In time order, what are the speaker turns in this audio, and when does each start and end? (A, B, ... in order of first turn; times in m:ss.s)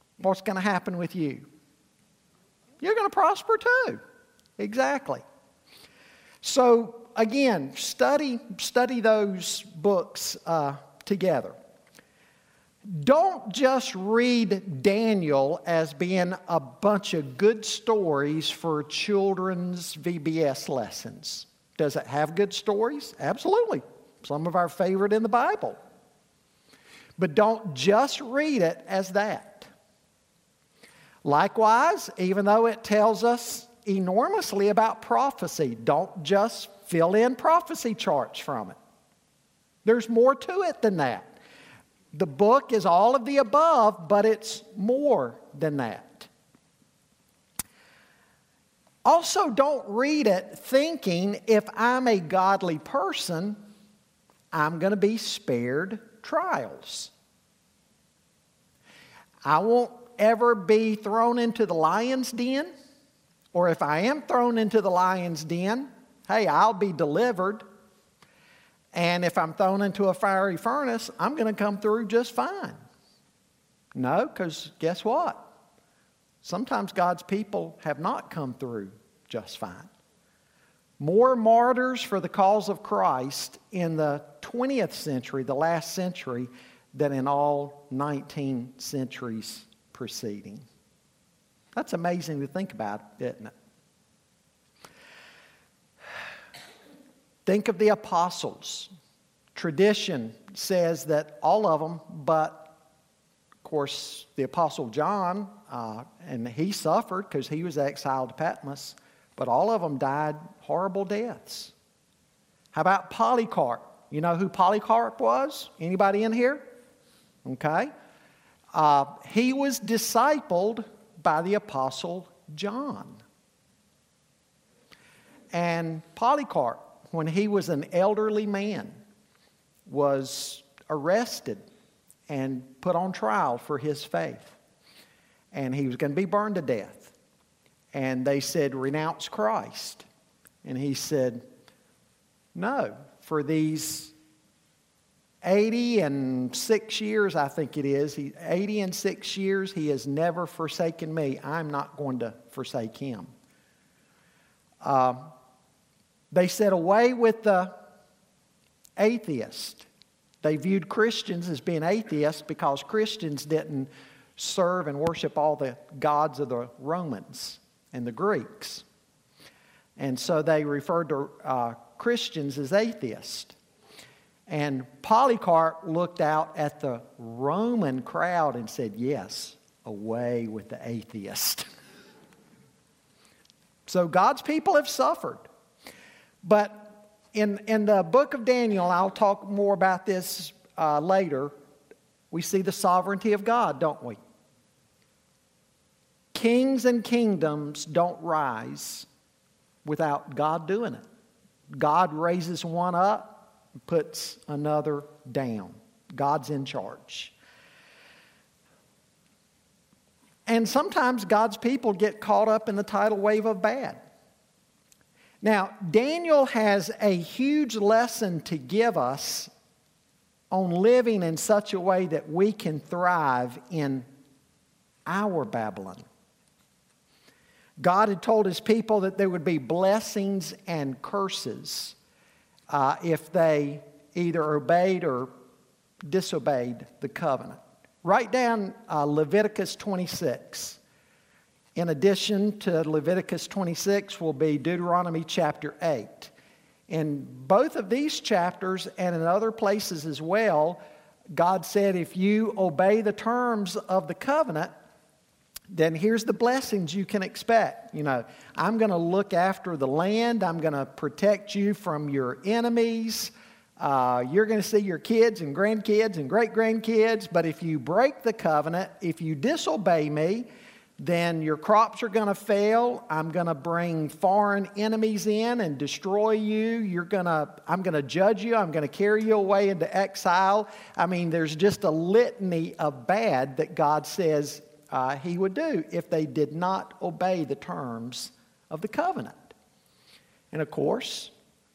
0:00.2-0:01.5 A
0:02.8-0:04.0 A
0:04.6-0:05.2 A
0:06.4-0:11.6 A
0:12.9-0:25.8 A
0:27.2-0:29.7 A
0:31.2-0:38.8 A
0:39.8-0:41.4 A
0:42.1-0:46.3 A
0:49.0-0:53.6 A
0:54.5-0:57.1 A
0:59.4-1:02.7 A
1:03.5-1:07.7 A
1:08.9-1:12.8 A
1:13.9-1:15.5 A
1:16.4-1:19.9 A
1:21.0-1:30.6 A
1:31.7-1:33.5 A
1:37.4-1:38.9 A
1:39.5-1:42.7 A
1:43.6-1:51.7 A
1:52.7-1:56.7 A
1:57.4-1:57.9 A
1:58.7-2:03.2 A
2:05.5-2:09.0 A
2:09.9-2:11.6 A
2:12.3-2:14.6 A
2:15.5-2:17.1 A
2:17.9-2:20.0 A
2:20.6-2:21.5 A
2:22.5-2:24.1 A
2:25.4-2:33.3 A
2:34.8-2:35.3 A
2:36.3-2:37.8 A
2:39.0-2:39.8 A
2:40.4-2:48.8 A
2:50.0-2:53.5 A
2:54.5-3:01.6 A
3:03.9-3:05.5 A
3:06.4-3:11.5 A
3:12.3-3:14.2 A
3:16.3-3:19.1 A
3:19.8-3:21.0 A
3:21.7-3:27.3 A
3:30.5-3:34.0 A
3:35.4-3:39.5 A
3:40.5-3:44.1 A
3:45.1-3:46.0 A
3:47.8-3:52.0 A
3:52.7-3:55.3 A
3:56.0-4:00.8 A
4:01.8-4:06.3 A
4:06.9-4:10.8 A
4:11.3-4:14.7 A
4:15.7-4:49.5 A
4:50.5-4:51.3 A